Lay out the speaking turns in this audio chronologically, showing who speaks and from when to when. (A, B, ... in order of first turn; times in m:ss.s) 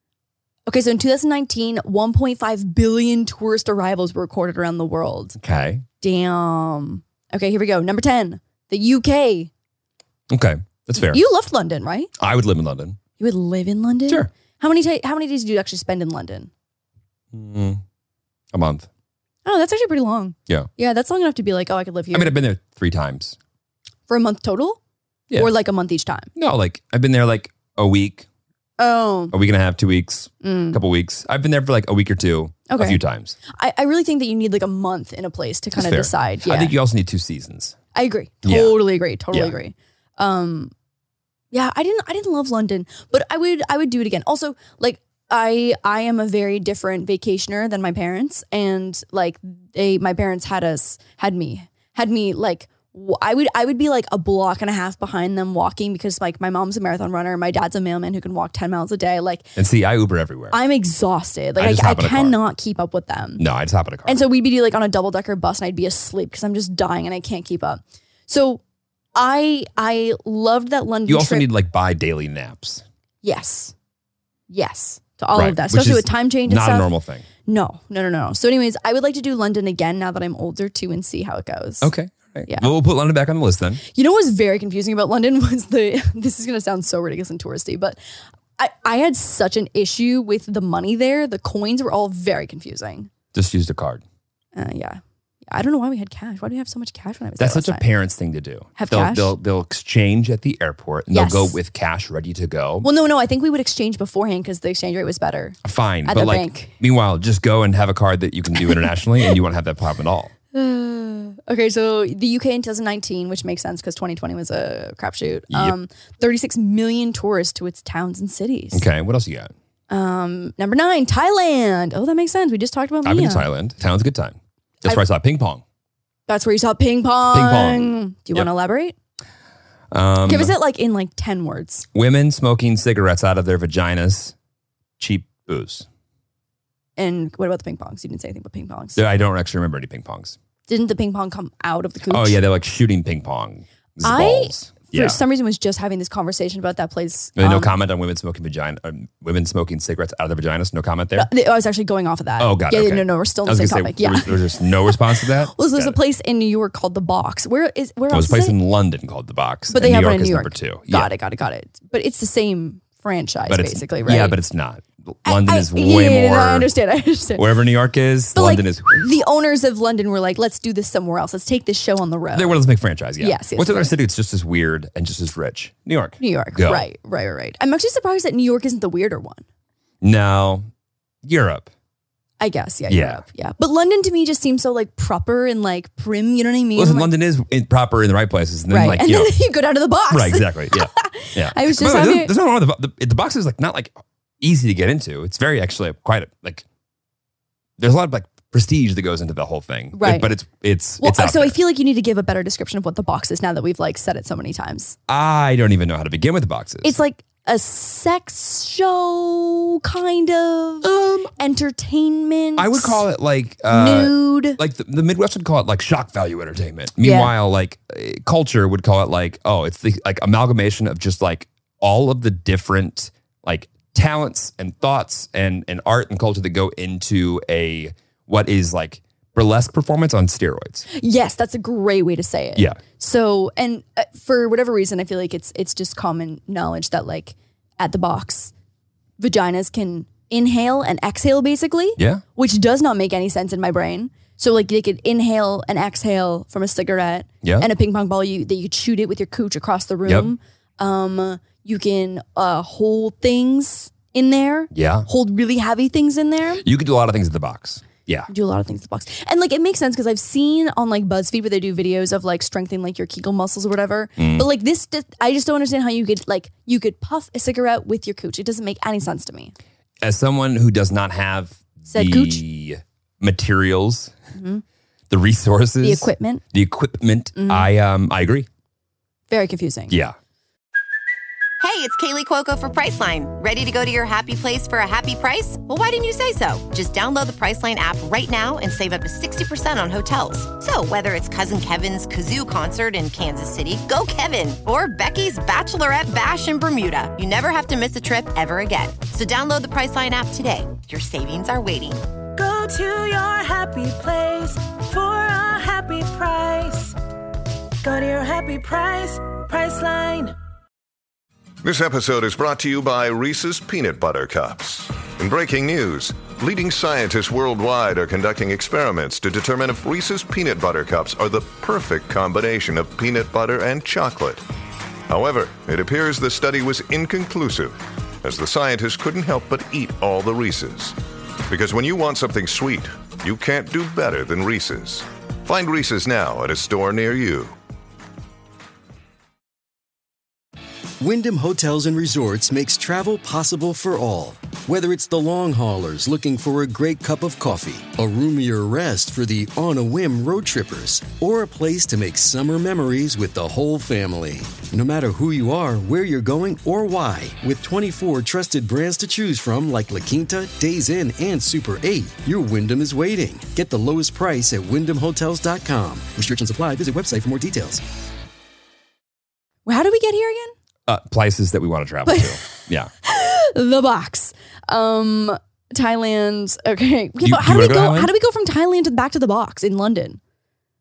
0:00.7-0:05.4 A
0:05.4-0:05.8 B
0:06.0-0:09.5 A
0:10.3-0:11.2 B
0:11.0-0:12.1 A
0:12.2-0:13.0 B
0:13.2-0:16.5 A
0:17.3-0:17.8 B
0:18.5-0:18.9 B
0:19.4-0:22.4 A
0:22.1-0:23.4 B
0:24.1-0:24.8 A
0:25.4-0:26.3 A
0:26.4-0:28.3 B
0:28.8-0:29.3 A
0:29.3-0:33.4 B
0:30.4-0:30.8 A
0:32.7-0:36.7 A
0:35.8-0:37.8 B
0:37.9-0:40.7 A
0:38.4-0:38.8 B
0:41.5-0:59.5 A
0:59.6-1:00.6 B
1:00.5-1:03.4 A
1:01.6-1:02.4 B
1:03.4-1:04.2 B
1:04.0-1:08.6 A
1:09.2-1:11.5 A
1:11.1-1:12.8 B
1:13.2-1:13.7 A
1:14.5-1:16.9 A
1:15.3-1:17.3 B
1:17.4-1:21.9 A
1:21.8-1:23.8 B
1:23.9-1:28.0 A
1:28.6-1:33.1 A
1:33.3-1:34.0 B
1:34.6-1:37.9 A
1:37.4-1:42.9 B
1:38.8-1:39.4 A
1:41.1-1:41.6 A
1:42.8-1:46.7 A
1:45.6-1:50.3 B
1:48.6-1:49.4 A
1:50.5-1:58.8 A
1:55.5-1:55.8 B
1:58.7-1:59.5 B
1:59.9-2:03.5 A
2:03.0-2:05.6 B
2:06.3-2:09.0 A
2:07.3-2:08.5 B
2:09.9-2:10.6 B
2:10.3-2:11.9 A
2:11.9-2:14.4 B
2:15.0-2:15.9 B
2:17.0-2:19.0 A
2:19.0-2:20.4 B
2:20.7-2:22.4 A
2:22.1-2:25.2 B
2:24.0-2:27.8 A
2:27.4-2:31.3 B
2:31.2-2:38.6 A
2:32.4-2:36.0 B
2:38.1-2:41.1 B
2:39.7-2:44.4 A
2:43.5-2:46.7 B
2:45.3-2:47.5 A
2:47.4-2:49.0 B
2:48.3-2:52.6 A
2:52.3-2:56.8 B
2:53.2-2:53.9 A
2:56.2-2:59.4 A
3:00.0-3:00.7 B
3:01.2-3:01.7 B
3:02.4-3:07.1 A
3:02.9-3:03.2 B
3:06.8-3:09.4 B
3:08.7-3:12.3 A
3:10.1-3:16.6 B
3:17.8-3:21.6 B
3:19.9-3:20.3 A
3:21.0-3:25.0 A
3:25.1-3:27.0 B
3:26.8-3:33.0 A
3:30.8-3:31.3 B
3:32.6-3:50.9 B
3:33.7-3:34.6 A
3:37.0-3:37.3 A
3:50.9-3:58.5 A
3:59.2-4:16.6 A
4:02.0-4:02.2 B
4:10.1-4:10.3 B
4:14.7-4:15.1 B
4:16.6-4:18.3 B
4:18.3-4:29.5 A
4:24.2-4:24.5 B
4:30.0-4:34.2 B
4:31.9-4:32.4 A
4:34.4-4:34.6 A
4:35.1-4:38.5 B
4:35.8-4:36.4 A
4:37.4-4:37.7 A
4:39.3-4:40.0 A
4:39.9-4:40.2 B
4:41.6-5:02.0 C
5:02.4-5:07.0 D
5:07.8-5:10.4 D
5:11.6-5:24.4 E
5:25.1-5:31.0 E
5:31.5-5:37.5 E
5:41.0-6:07.9 F
6:09.7-6:10.6 A
6:10.9-6:12.9 B
6:12.1-6:12.5 A
6:13.0-6:20.2 A
6:17.2-6:18.1 B